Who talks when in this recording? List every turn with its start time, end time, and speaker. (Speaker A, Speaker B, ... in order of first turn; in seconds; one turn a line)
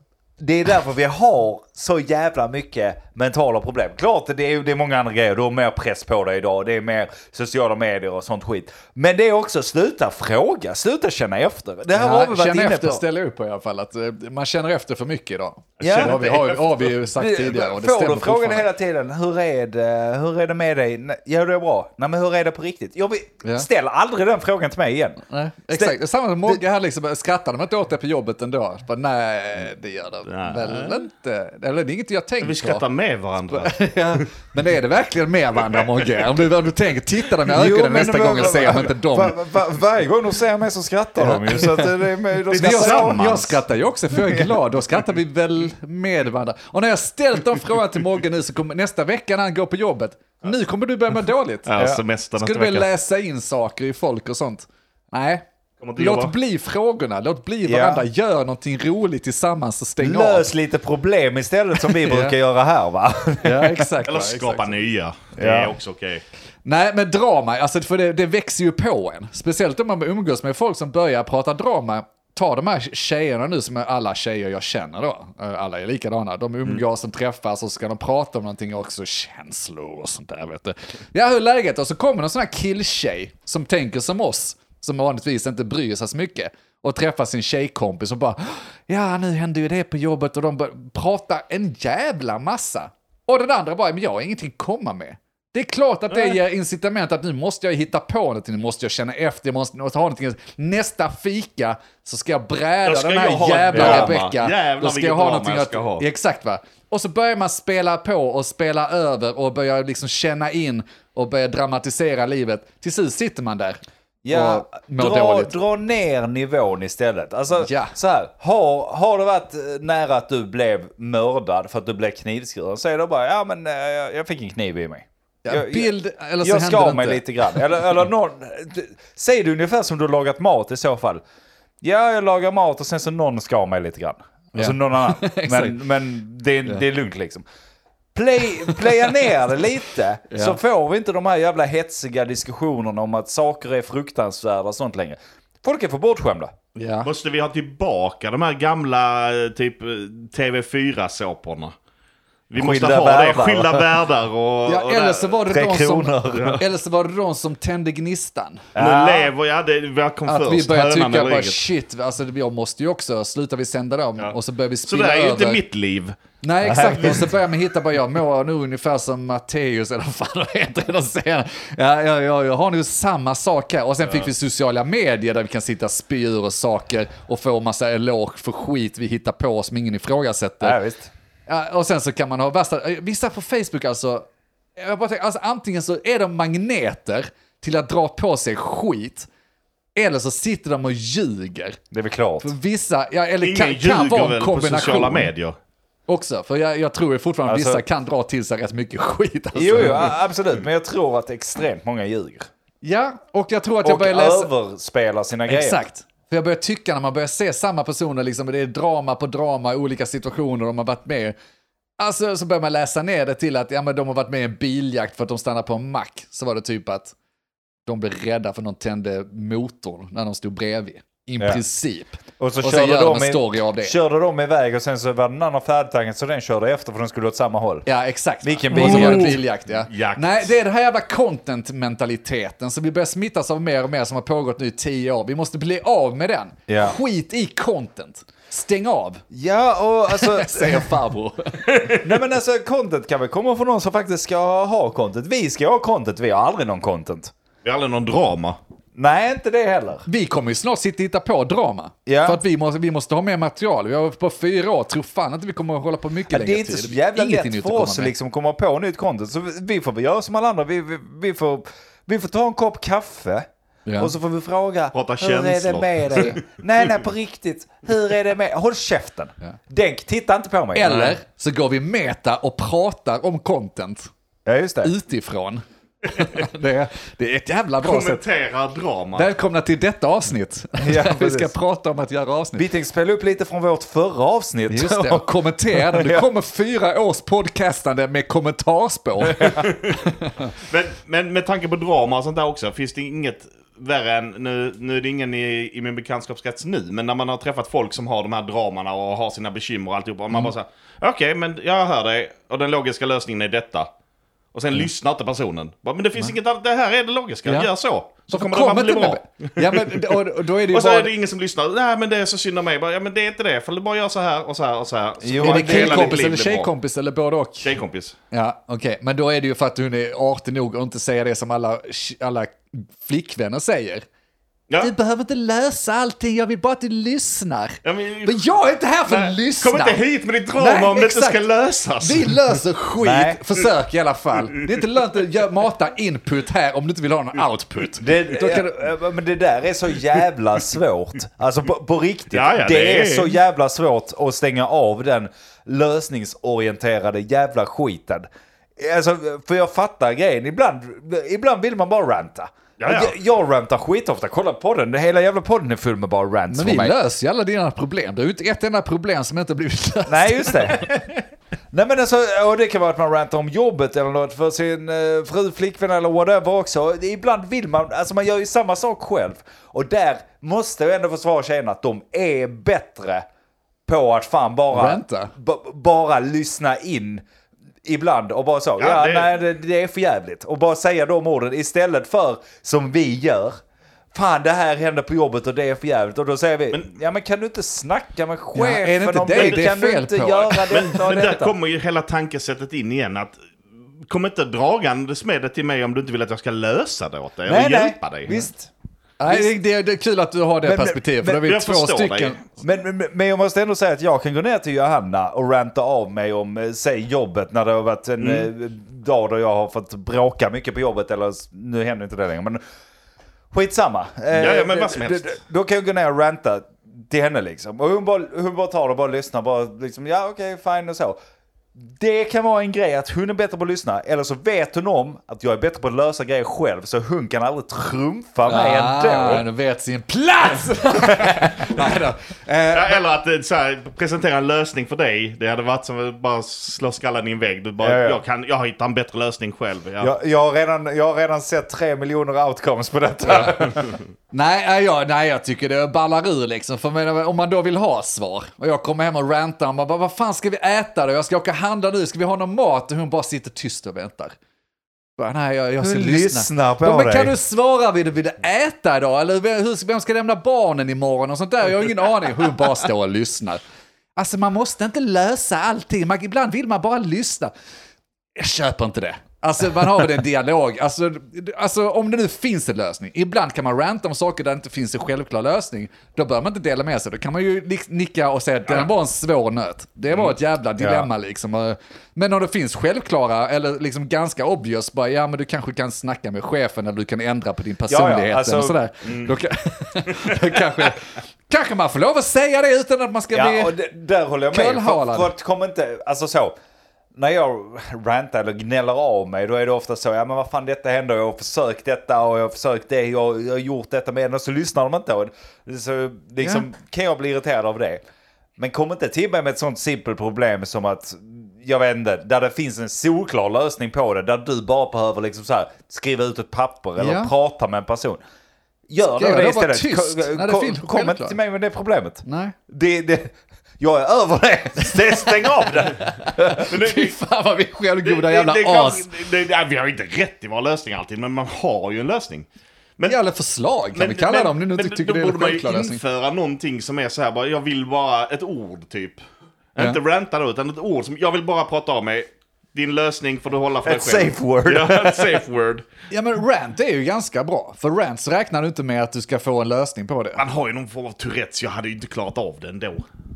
Speaker A: 0.4-13.0
Speaker B: 11.9-18.7
Speaker C: 15.8-16.9
Speaker A: 15.8-16.2
Speaker A: 17.2-25.2
Speaker B: 25.3-32.8
Speaker A: 25.7-25.9
Speaker C: 30.3-31.0
Speaker C: 32.4-34.2
Speaker B: 33.5-39.4
Speaker C: 35.7-36.3
Speaker A: 37.5-43.4
Speaker B: 41.2-41.9
Speaker C: 42.5-43.6
Speaker B: 42.5-51.7
Speaker A: 44.2-44.5
Speaker C: 51.6-52.9
Speaker B: 52.4-55.5
Speaker C: 55.8-56.3
Speaker B: 56.0-60.5
Speaker A: 57.6-58.0
Speaker A: 60.0-63.9
Speaker B: 61.8-62.4
Speaker B: 63.4-64.8
Speaker C: 64.0-66.2
Speaker A: 65.4-65.8
Speaker B: 66.6-113.8
Speaker C: 102.8-106.1
Speaker A: 103.7-104.1
Speaker A: 114.2-131.2
Speaker B: 114.3-115.5
Speaker B: 117.6-117.9
Speaker B: 125.4-127.6
Speaker A: 131.8-137.4
Speaker B: 134.5-135.8
Speaker A: 138.1-146.5
Speaker B: 138.6-139.1
Speaker B: 140.3-140.6
Speaker B: 146.8-147.1
Speaker C: 147.0-151.7
Speaker C: 152.5-155.4
Speaker A: 152.5-153.9
Speaker B: 154.7-158.7
Speaker A: 155.4-156.6
Speaker A: 158.7-159.3
Speaker C: 158.8-161.7
Speaker B: 160.2-165.6
Speaker C: 164.2-166.2
Speaker B: 166.4-180.8
Speaker A: 166.6-167.3
Speaker A: 180.6-181.1
Speaker B: 181.5-189.3
Speaker B: 189.9-191.8
Speaker A: 191.9-192.5
Speaker B: 192.4-195.3
Speaker C: 193.4-195.6
Speaker B: 196.1-200.1
Speaker A: 197.5-197.8
Speaker A: 199.5-202.5
Speaker B: 202.8-204.5
Speaker A: 203.8-205.8
Speaker B: 205.5-211.3
Speaker B: 212.0-217.1
Speaker B: 217.8-223.9
Speaker A: 222.4-227.8
Speaker B: 227.8-239.2
Speaker A: 228.4-229.4
Speaker C: 228.7-230.5
Speaker A: 236.7-236.9
Speaker A: 239.3-240.9
Speaker B: 240.1-241.6
Speaker C: 241.7-242.1
Speaker A: 241.9-247.3
Speaker C: 247.6-248.6
Speaker A: 248.9-250.0
Speaker B: 250.1-258.1
Speaker A: 252.1-252.4
Speaker A: 256.3-263.5
Speaker B: 263.9-264.1
Speaker A: 264.0-271.2
Speaker C: 264.9-266.6
Speaker B: 270.7-274.1
Speaker A: 274.4-274.9
Speaker B: 274.8-278.2
Speaker C: 276.2-276.4
Speaker C: 277.8-279.3
Speaker B: 279.1-282.6
Speaker A: 280.8-281.5
Speaker A: 282.6-286.3
Speaker B: 284.7-290.5
Speaker C: 289.4-290.0
Speaker C: 290.5-303.9
Speaker C: 304.5-316.7
Speaker B: 307.5-307.7
Speaker B: 308.3-311.1
Speaker A: 315.2-316.2
Speaker B: 315.4-317.7
Speaker C: 317.6-318.1
Speaker B: 318.3-324.0
Speaker B: 324.8-330.0
Speaker C: 327.8-332.4
Speaker B: 330.6-331.4
Speaker B: 332.0-338.8
Speaker A: 333.0-333.4
Speaker A: 338.0-356.9
Speaker C: 342.3-343.3
Speaker C: 352.8-353.1
Speaker B: 356.5-361.2
Speaker A: 360.1-360.9
Speaker A: 361.7-373.2
Speaker A: 373.9-377.2
Speaker B: 374.7-375.3
Speaker A: 377.8-383.6
Speaker C: 378.8-379.3
Speaker A: 384.1-391.5
Speaker B: 388.5-391.0
Speaker C: 390.7-393.4
Speaker C: 394.0-398.5
Speaker A: 397.4-398.7
Speaker B: 399.2-402.4
Speaker A: 400.6-401.4
Speaker C: 401.4-402.6
Speaker A: 402.6-412.6
Speaker A: 413.5-421.2
Speaker C: 414.3-415.3
Speaker A: 421.8-429.4
Speaker B: 428.4-433.0
Speaker A: 431.1-431.4
Speaker C: 432.7-440.1
Speaker A: 437.8-438.2
Speaker A: 440.0-443.9
Speaker B: 444.3-454.4
Speaker B: 455.2-463.6
Speaker A: 455.8-457.3
Speaker B: 464.1-467.5
Speaker B: 468.4-493.7
Speaker A: 480.8-481.1
Speaker A: 487.9-488.8
Speaker C: 489.1-489.4
Speaker A: 493.3-496.5
Speaker B: 494.5-495.3
Speaker A: 497.1-508.0
Speaker A: 508.6-518.2
Speaker B: 517.0-517.3
Speaker A: 518.9-526.7
Speaker B: 519.1-521.4
Speaker B: 522.2-522.5
Speaker B: 524.9-525.2
Speaker B: 525.8-529.1
Speaker C: 526.6-527.2
Speaker C: 528.0-532.5
Speaker B: 533.0-536.0
Speaker C: 533.9-539.2
Speaker C: 539.7-545.8
Speaker A: 543.8-545.4
Speaker B: 546.1-550.4
Speaker C: 550.4-553.0